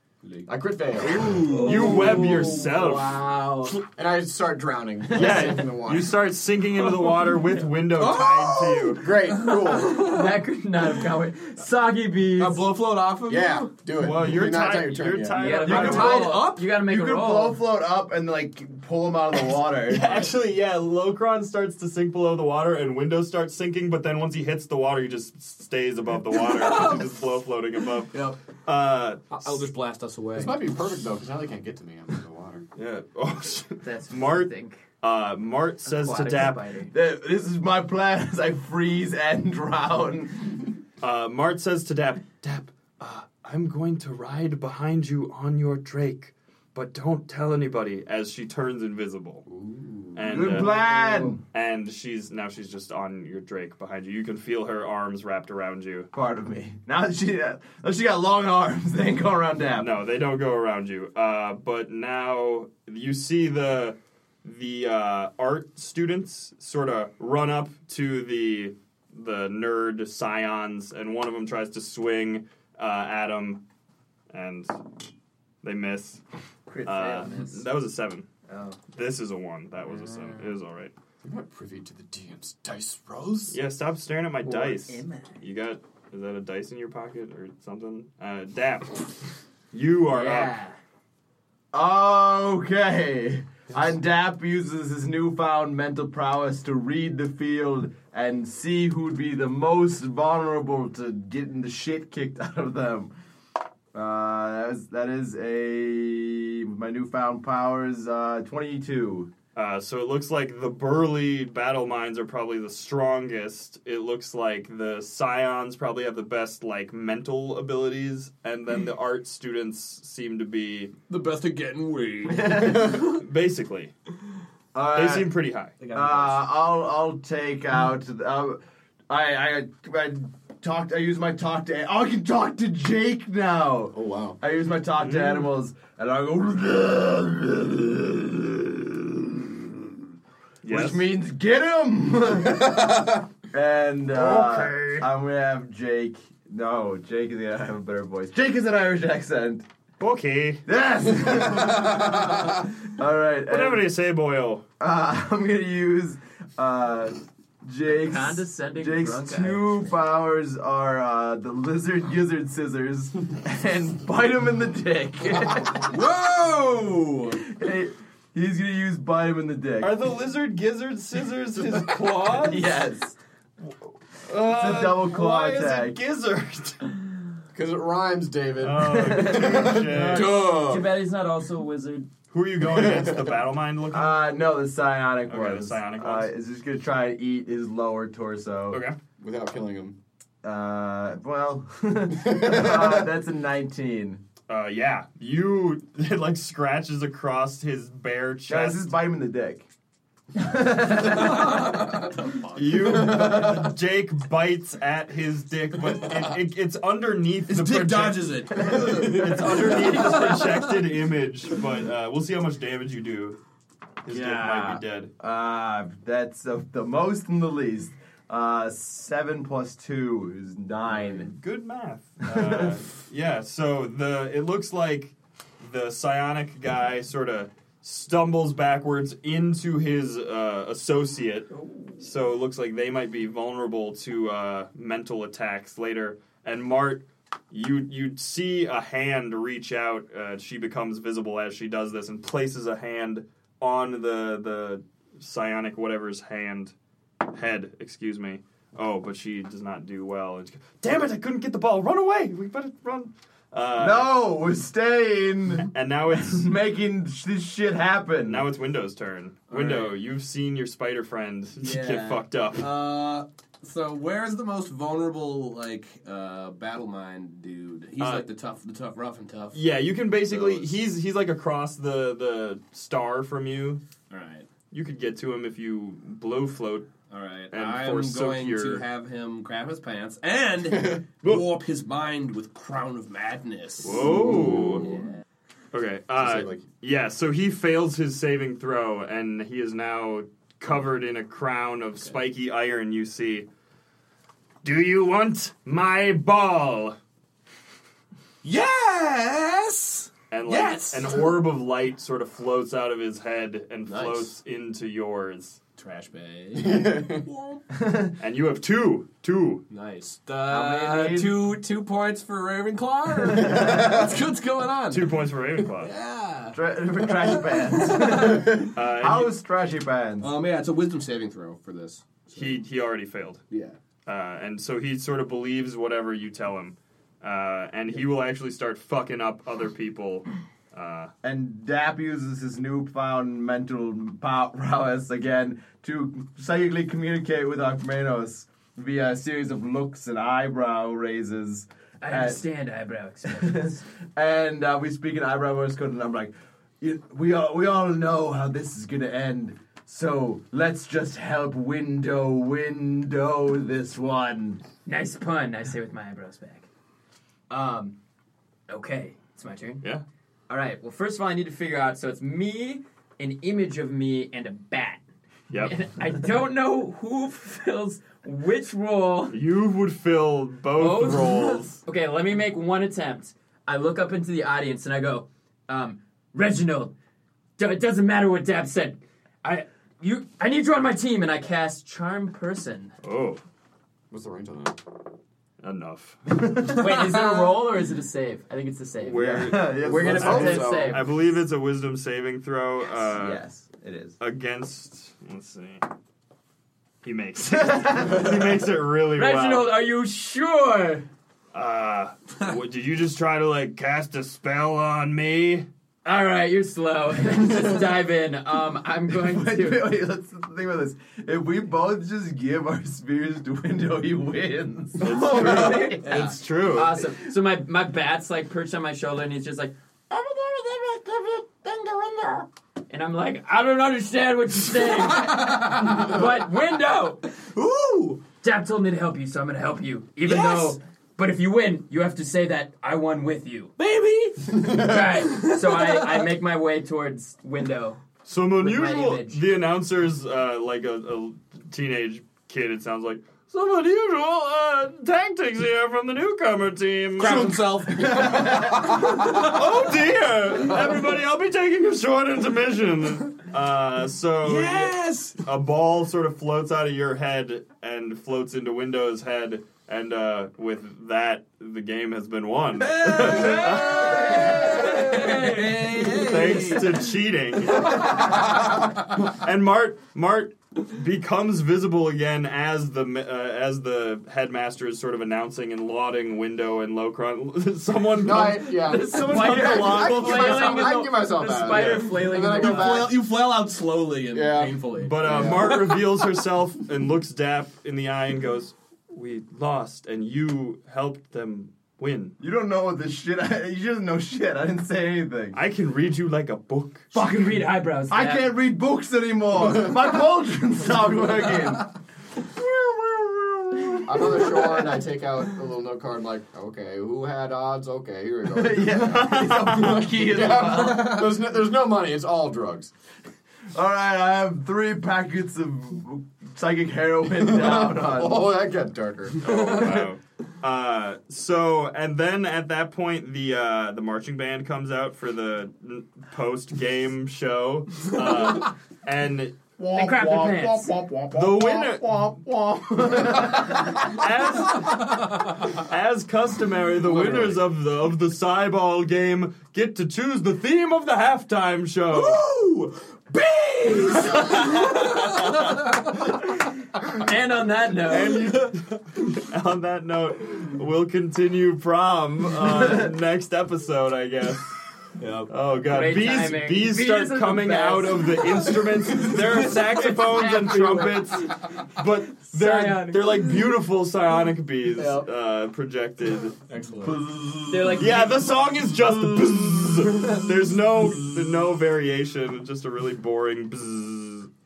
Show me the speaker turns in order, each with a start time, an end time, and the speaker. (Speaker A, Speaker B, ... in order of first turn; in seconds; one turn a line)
Speaker A: 0.2-2.4
Speaker B: 0.5-1.5
Speaker C: 1.4-2.7
Speaker D: 1.6-3.2
Speaker B: 2.0-6.1
Speaker D: 5.1-9.0
Speaker E: 5.1-5.6
Speaker A: 8.0-10.4
Speaker B: 9.0-10.1
Speaker C: 9.4-12.7
Speaker A: 12.4-13.7
Speaker B: 13.3-15.7
Speaker D: 14.0-16.3
Speaker C: 15.3-17.6
Speaker E: 15.7-20.3
Speaker A: 15.8-16.7
Speaker D: 19.9-29.6
Speaker A: 26.4-27.1
Speaker A: 28.1-28.4
Speaker A: 29.3-30.6
Speaker B: 30.4-32.6
Speaker D: 32.8-34.5
Speaker C: 33.8-34.8
Speaker D: 35.0-36.7
Speaker C: 35.9-36.9
Speaker E: 36.9-40.7
Speaker D: 41.0-49.5
Speaker B: 49.6-50.2
Speaker D: 50.1-50.9
Speaker E: 50.3-51.4
Speaker C: 51.0-51.3
Speaker D: 51.5-56.1
Speaker E: 56.1-59.9
Speaker D: 59.7-73.6
Speaker D: 74.3-74.8
Speaker D: 75.6-76.2
Speaker C: 76.7-77.7
Speaker D: 76.8-78.3
Speaker C: 78.5-78.8
Speaker D: 78.9-80.9
Speaker C: 79.9-80.5
Speaker B: 81.2-83.6
Speaker D: 83.5-90.5
Speaker C: 84.4-85.4
Speaker C: 90.1-90.8
Speaker E: 91.7-103.1
Speaker E: 103.9-109.3
Speaker D: 109.5-120.9
Speaker A: 121.1-123.2
Speaker E: 122.3-123.1
Speaker D: 122.9-123.9
Speaker E: 124.7-125.3
Speaker D: 124.9-125.8
Speaker A: 125.8-126.5
Speaker E: 125.9-140.0
Speaker B: 133.9-134.4
Speaker D: 135.0-135.5
Speaker D: 140.6-141.1
Speaker E: 140.7-149.7
Speaker B: 144.2-144.7
Speaker D: 144.2-145.0
Speaker D: 150.0-150.6
Speaker E: 150.7-153.9
Speaker D: 153.5-154.6
Speaker E: 154.8-165.9
Speaker C: 157.8-159.9
Speaker A: 165.8-167.4
Speaker E: 167.4-169.9
Speaker D: 169.8-172.8
Speaker E: 172.2-173.2
Speaker D: 174.3-177.0
Speaker E: 174.4-176.0
Speaker B: 177.5-180.2
Speaker D: 178.6-180.5
Speaker E: 178.9-179.8
Speaker C: 179.9-182.1
Speaker A: 180.1-180.9
Speaker D: 182.3-184.2
Speaker B: 182.7-183.2
Speaker E: 183.9-188.8
Speaker D: 185.3-186.3
Speaker D: 188.7-189.0
Speaker B: 189.2-190.0
Speaker E: 190.4-194.2
Speaker B: 192.2-193.0
Speaker D: 194.5-198.9
Speaker E: 198.5-199.7
Speaker E: 200.3-201.8
Speaker D: 201.1-201.8
Speaker D: 202.5-213.4
Speaker E: 202.8-203.7
Speaker A: 207.5-210.5
Speaker E: 208.6-209.3
Speaker D: 214.0-215.1
Speaker A: 214.1-214.8
Speaker E: 215.2-221.3
Speaker D: 220.8-231.5
Speaker E: 222.3-222.8
Speaker C: 231.5-232.1
Speaker D: 232.0-246.7
Speaker D: 247.3-254.1
Speaker E: 253.8-258.5
Speaker D: 255.5-256.5
Speaker D: 258.2-262.7
Speaker A: 259.5-259.9
Speaker A: 261.6-269.7
Speaker D: 268.0-268.3
Speaker D: 269.5-273.8
Speaker A: 270.2-270.8
Speaker A: 274.1-274.5
Speaker D: 274.7-276.9
Speaker A: 277.1-285.1
Speaker D: 277.5-278.8
Speaker D: 283.8-285.0
Speaker D: 285.7-293.5
Speaker B: 286.2-286.6
Speaker D: 294.6-297.0
Speaker A: 298.4-301.3
Speaker D: 300.3-305.6
Speaker A: 303.9-304.3
Speaker A: 305.8-307.6
Speaker B: 306.6-307.2
Speaker E: 307.8-308.1
Speaker D: 308.2-309.6
Speaker A: 309.7-318.7
Speaker E: 310.5-311.5
Speaker E: 313.3-314.2
Speaker D: 314.9-315.9
Speaker E: 316.5-320.3
Speaker D: 318.8-319.3
Speaker A: 320.2-322.6
Speaker D: 322.4-323.4
Speaker A: 323.5-323.8
Speaker D: 324.1-331.1
Speaker E: 331.2-342.4
Speaker C: 342.0-343.8
Speaker E: 343.3-354.6
Speaker C: 354.9-356.7
Speaker C: 357.5-357.9
Speaker C: 358.7-359.8
Speaker C: 360.5-369.4
Speaker D: 365.5-365.8
Speaker D: 369.3-371.8
Speaker C: 370.8-376.9
Speaker C: 377.6-382.9
Speaker D: 383.0-383.4
Speaker B: 384.1-384.8
Speaker D: 385.6-386.6
Speaker E: 386.4-387.0
Speaker C: 386.7-391.1
Speaker D: 389.0-393.4
Speaker E: 389.1-390.8
Speaker B: 389.9-391.0
Speaker E: 393.1-394.2
Speaker D: 394.2-395.8
Speaker D: 397.0-399.8
Speaker E: 397.5-398.4
Speaker C: 399.2-401.1
Speaker D: 401.5-405.7
Speaker C: 406.0-409.9
Speaker E: 409.1-416.3
Speaker C: 415.0-427.3
Speaker D: 415.0-417.0
Speaker A: 425.1-426.3
Speaker A: 427.4-428.2
Speaker C: 428.4-433.7
Speaker A: 430.2-430.7
Speaker A: 433.8-436.3
Speaker C: 434.6-438.0
Speaker D: 438.2-481.0
Speaker C: 438.6-439.4
Speaker A: 447.2-449.8
Speaker E: 448.2-448.8
Speaker A: 454.4-455.4
Speaker A: 462.8-467.1
Speaker C: 464.6-465.5
Speaker A: 467.8-468.5
Speaker B: 478.2-483.2
Speaker C: 478.6-483.1
Speaker D: 481.7-482.0
Speaker A: 482.6-486.1
Speaker B: 484.3-485.5
Speaker D: 485.0-492.4
Speaker E: 492.4-495.6
Speaker D: 495.5-497.1
Speaker C: 497.1-498.5
Speaker E: 498.1-505.0
Speaker B: 504.1-512.9
Speaker E: 508.5-511.4
Speaker D: 509.1-510.1
Speaker E: 513.7-518.5
Speaker B: 517.3-520.1
Speaker D: 519.4-529.6
Speaker E: 519.5-520.1
Speaker E: 529.8-534.2
Speaker C: 529.9-530.9
Speaker D: 531.3-532.3
Speaker D: 533.9-542.5
Speaker A: 535.1-535.5
Speaker A: 537.1-537.4
Speaker A: 542.1-546.2
Speaker D: 543.9-545.8
Speaker C: 547.2-548.5
Speaker D: 548.1-554.8
Speaker A: 555.2-555.5
Speaker D: 555.5-566.6
Speaker C: 555.9-558.8
Speaker C: 559.7-561.7
Speaker C: 562.5-563.5
Speaker A: 565.0-565.2
Speaker A: 566.7-567.2
Speaker E: 567.0-568.2
Speaker C: 567.7-568.3
Speaker D: 567.9-574.5
Speaker E: 569.3-569.8